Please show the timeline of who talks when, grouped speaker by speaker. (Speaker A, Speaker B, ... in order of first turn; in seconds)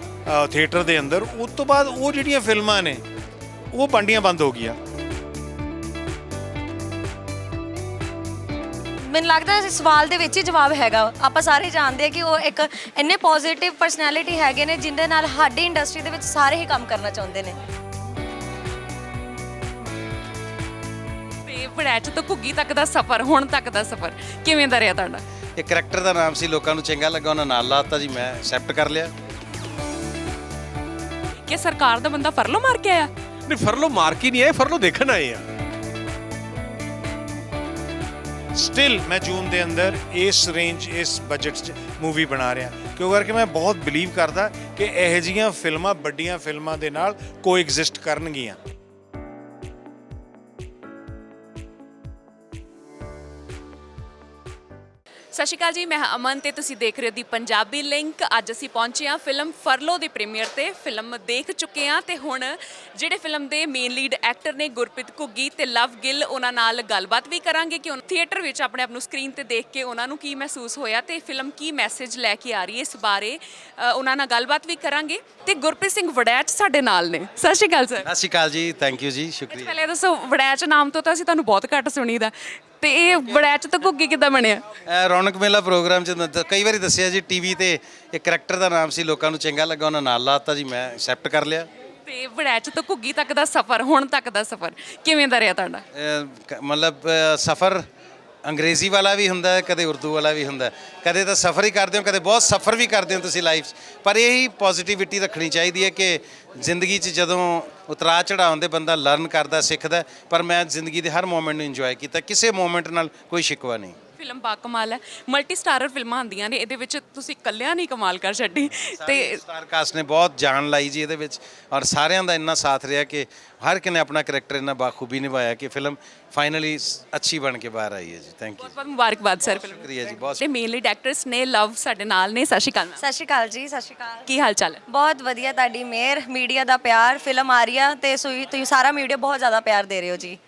Speaker A: 0.3-3.0, 3.7-4.8, 38.5-48.6
Speaker B: 9.1-17.6, 133.0-134.2, 134.9-140.4
Speaker C: 21.4-25.2, 31.5-33.1, 55.3-78.1, 79.5-84.7, 92.0-95.8, 114.2-119.4, 128.6-133.0, 134.2-134.8
Speaker D: 25.6-29.1, 78.0-79.8, 84.9-91.7, 95.9-97.9, 98.5-114.0, 118.8-128.8, 129.5-130.4
Speaker E: 33.5-35.5